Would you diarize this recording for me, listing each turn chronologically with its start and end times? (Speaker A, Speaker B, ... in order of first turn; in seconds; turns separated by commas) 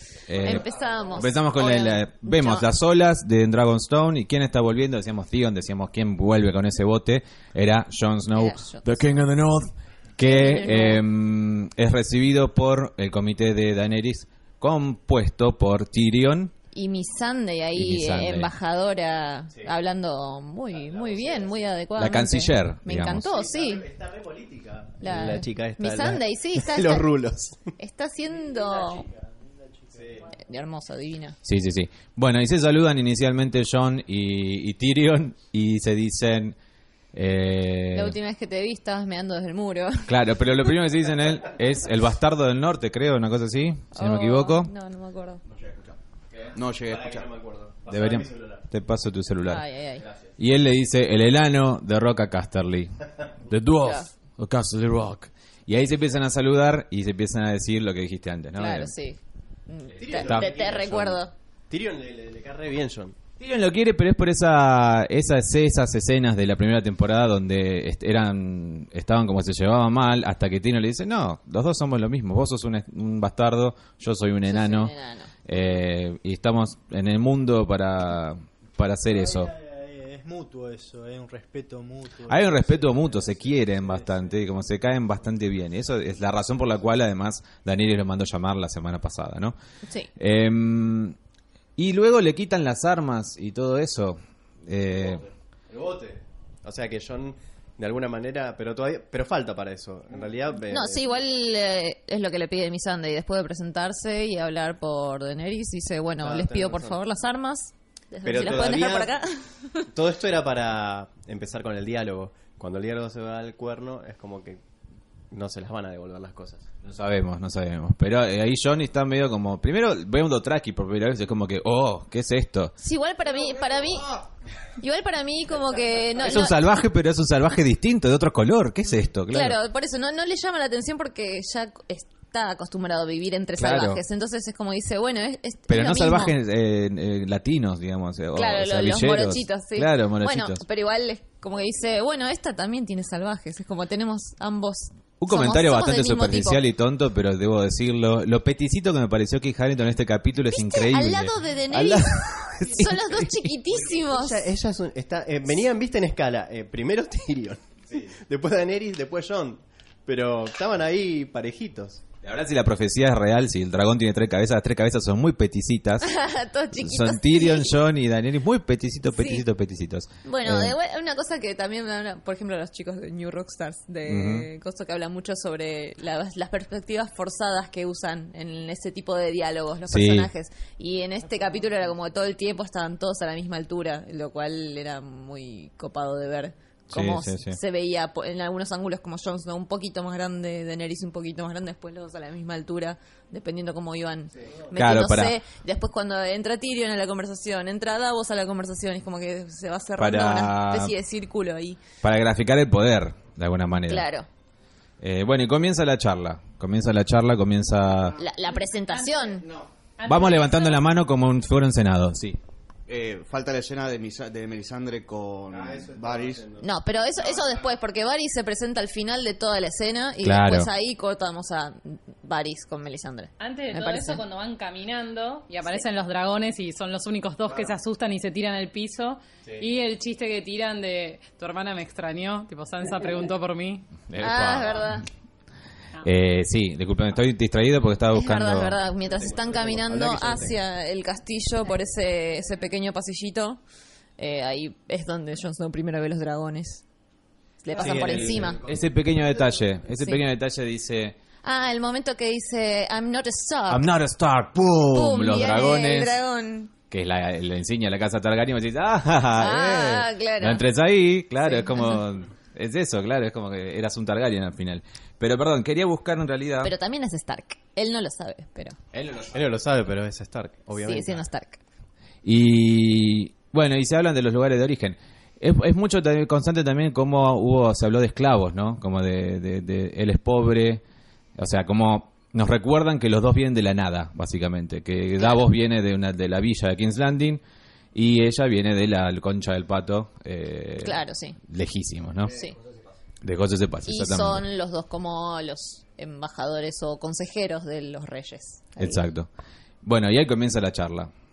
Speaker A: 0.3-16.5, Speaker B: 0.3-2.6, Speaker B: 8.3-9.2, Speaker B: 10.2-11.0, Speaker B: 16.7-23.8, Speaker A: 17.7-18.5, Speaker C: 20.7-21.7, Speaker A: 21.9-23.4, Speaker C: 23.3-27.6, Speaker B: 25.0-27.1, Speaker B: 27.8-29.1, Speaker D: 28.3-30.3, Speaker C: 29.9-30.3, Speaker B: 30.3-31.4, Speaker A: 31.4-36.5, Speaker A: 37.1-38.1, Speaker B: 37.9-40.1, Speaker A: 40.0-44.7, Speaker B: 43.9-45.4, Speaker E: 45.5-46.0, Speaker C: 46.3-48.7, Speaker E: 46.5-47.3, Speaker A: 47.9-49.6, Speaker B: 49.4-50.0, Speaker A: 50.4-53.0, Speaker A: 53.5-58.9, Speaker B: 53.8-54.1, Speaker B: 58.6-61.3, Speaker C: 60.0-63.2, Speaker A: 60.1-60.5, Speaker A: 63.4-74.9, Speaker B: 74.5-75.3, Speaker A: 75.5-79.5, Speaker D: 79.0-84.7, Speaker A: 82.3-89.5, Speaker A: 90.2-91.2, Speaker A: 91.8-95.2, Speaker C: 95.7-101.0, Speaker B: 100.7-109.8, Speaker C: 106.2-107.0, Speaker C: 108.2-109.2, Speaker C: 109.9-114.6, Speaker C: 115.3-116.7, Speaker A: 116.8-122.7, Speaker B: 122.8-124.2, Speaker B: 124.8-126.6, Speaker A: 126.2-129.6, Speaker B: 129.3-136.3, Speaker A: 133.6-134.0, Speaker A: 135.7-140.6, Speaker B: 138.3-146.6, Speaker A: 145.2-153.5, Speaker B: 150.5-154.5, Speaker C: 153.8-162.0, Speaker A: 162.2-166.1, Speaker B: 166.0-167.8, Speaker A: 166.8-170.7, Speaker B: 169.1-169.4, Speaker B: 170.2-201.8, Speaker A: 174.1-174.5, Speaker A: 179.9-180.3, Speaker A: 186.9-187.6, Speaker A: 194.7-195.4, Speaker A: 200.0-200.9, Speaker A: 202.0-204.1, Speaker B: 203.9-204.3, Speaker A: 205.0-208.2, Speaker B: 208.2-209.4, Speaker F: 208.9-209.3, Speaker F: 210.0-210.8, Speaker A: 210.1-212.4, Speaker E: 212.9-216.4, Speaker C: 215.5-216.7, Speaker B: 216.6-224.2, Speaker A: 220.2-220.7, Speaker F: 223.4-234.0, Speaker A: 234.1-234.9, Speaker B: 234.2-235.1, Speaker A: 236.0-238.8, Speaker B: 238.1-243.6, Speaker C: 239.0-240.6, Speaker B: 244.2-246.8, Speaker B: 247.6-248.6, Speaker C: 247.7-248.9, Speaker A: 247.8-251.2, Speaker B: 250.0-250.2, Speaker B: 251.4-253.8, Speaker A: 253.7-256.2, Speaker B: 254.9-256.7, Speaker A: 256.9-266.7, Speaker B: 259.4-260.6, Speaker B: 261.4-262.0, Speaker B: 266.6-268.8, Speaker A: 268.9-269.4, Speaker C: 269.3-271.2, Speaker B: 270.8-271.6, Speaker A: 272.2-280.8, Speaker A: 281.4-287.4, Speaker B: 285.2-285.4, Speaker A: 287.9-292.4, Speaker B: 290.8-291.4, Speaker E: 292.2-292.8, Speaker A: 293.2-294.4, Speaker B: 293.9-299.1, Speaker A: 298.8-299.3, Speaker A: 299.8-301.1